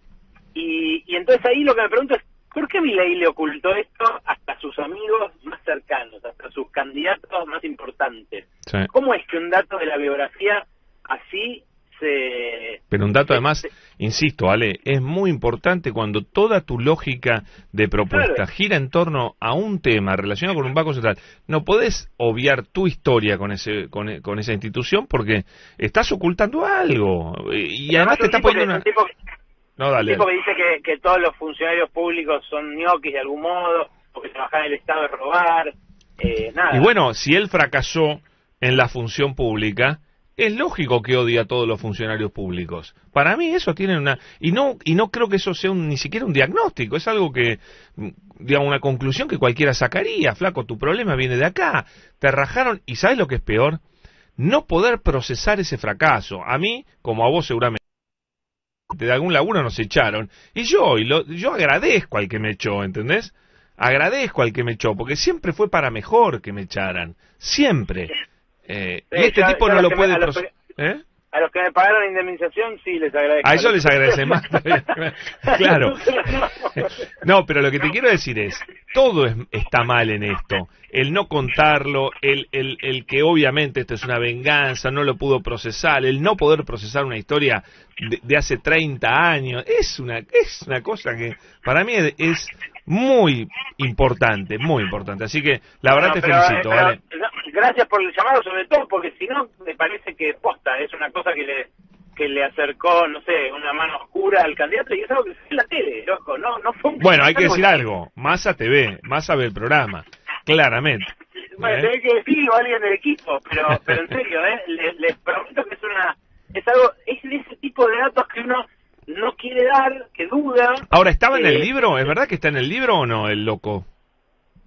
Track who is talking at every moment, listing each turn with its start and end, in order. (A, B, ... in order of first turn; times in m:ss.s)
0:00.5-0:13.5 A
0:12.9-0:28.8 B
0:18.1-0:18.4 A
0:27.9-0:29.1 A
0:29.8-0:30.3 B
0:30.0-0:36.9 A
0:36.7-0:53.8 B
0:54.4-0:57.8 B
0:58.9-1:08.1 B
1:08.6-1:11.0 B
1:09.1-1:10.5 A
1:11.3-1:14.8 A
1:13.4-1:16.4 B
1:15.4-1:16.9 A
1:17.2-1:37.0 B
1:35.9-1:47.8 A
1:47.0-1:51.1 B
1:51.6-2:01.7 A
1:51.6-1:51.9 B
2:00.9-2:03.8 B